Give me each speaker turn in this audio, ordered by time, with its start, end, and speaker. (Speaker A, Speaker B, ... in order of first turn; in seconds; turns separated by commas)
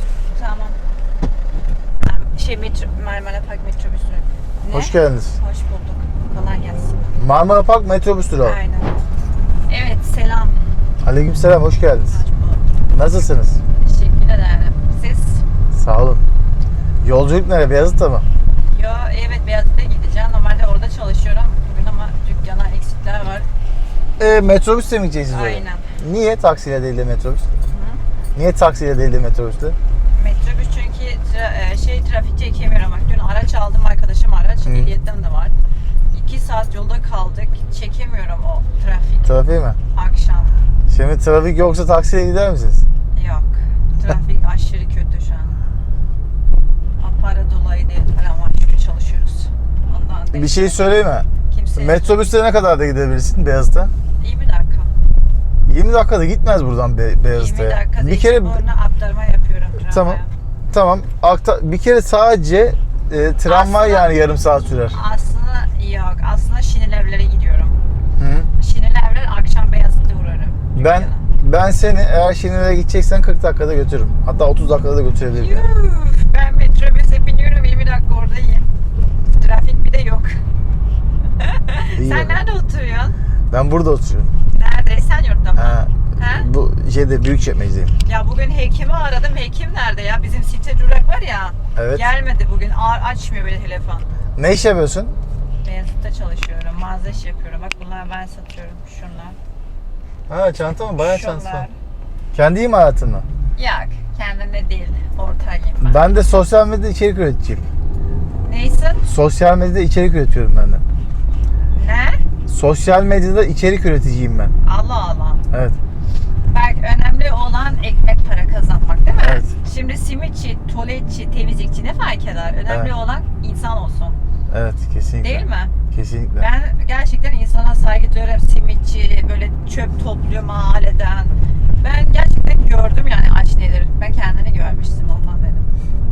Speaker A: 0.3-0.8, Speaker A: 2.0-7.0, Speaker B: 4.7-5.4, Speaker B: 7.2-8.6, Speaker A: 8.4-8.9, Speaker A: 9.7-10.6, Speaker B: 11.0-12.2, Speaker A: 12.1-12.7, Speaker B: 12.9-13.6, Speaker A: 13.8-15.4, Speaker B: 15.7-16.3, Speaker B: 17.0-18.3, Speaker A: 18.7-23.5, Speaker B: 24.2-27.5, Speaker A: 25.3-25.9, Speaker A: 27.7-28.0, Speaker B: 28.4-29.8, Speaker A: 30.2-35.5, Speaker B: 34.6-34.9, Speaker A: 36.1-39.3, Speaker B: 39.2-39.8, Speaker A: 39.9-40.5, Speaker B: 40.9-42.8, Speaker A: 43.1-45.6, Speaker A: 47.0-52.3, Speaker B: 50.3-53.9, Speaker A: 54.2-54.9, Speaker B: 55.7-58.6, Speaker A: 57.3-60.3, Speaker B: 59.9-65.0, Speaker A: 63.5-64.1, Speaker A: 64.9-67.8, Speaker B: 68.2-68.5, Speaker A: 68.6-71.3, Speaker B: 70.8-75.7, Speaker A: 75.3-78.7, Speaker A: 79.4-80.4, Speaker A: 81.4-83.2, Speaker B: 82.0-82.4, Speaker B: 83.5-84.3, Speaker A: 84.5-86.5, Speaker B: 85.6-87.9, Speaker A: 88.0-94.1, Speaker B: 91.8-92.0, Speaker B: 94.4-95.2, Speaker A: 95.6-99.4, Speaker B: 100.3-101.7, Speaker A: 101.0-101.8, Speaker B: 102.3-103.3, Speaker A: 103.6-106.1, Speaker B: 105.8-107.7, Speaker A: 108.5-109.0, Speaker B: 109.0-110.8, Speaker A: 111.7-112.2, Speaker B: 112.5-114.5, Speaker A: 114.6-115.4, Speaker B: 115.5-115.8, Speaker A: 116.5-124.2, Speaker B: 119.2-119.5, Speaker B: 124.5-126.5, Speaker A: 125.2-125.7, Speaker A: 126.4-135.7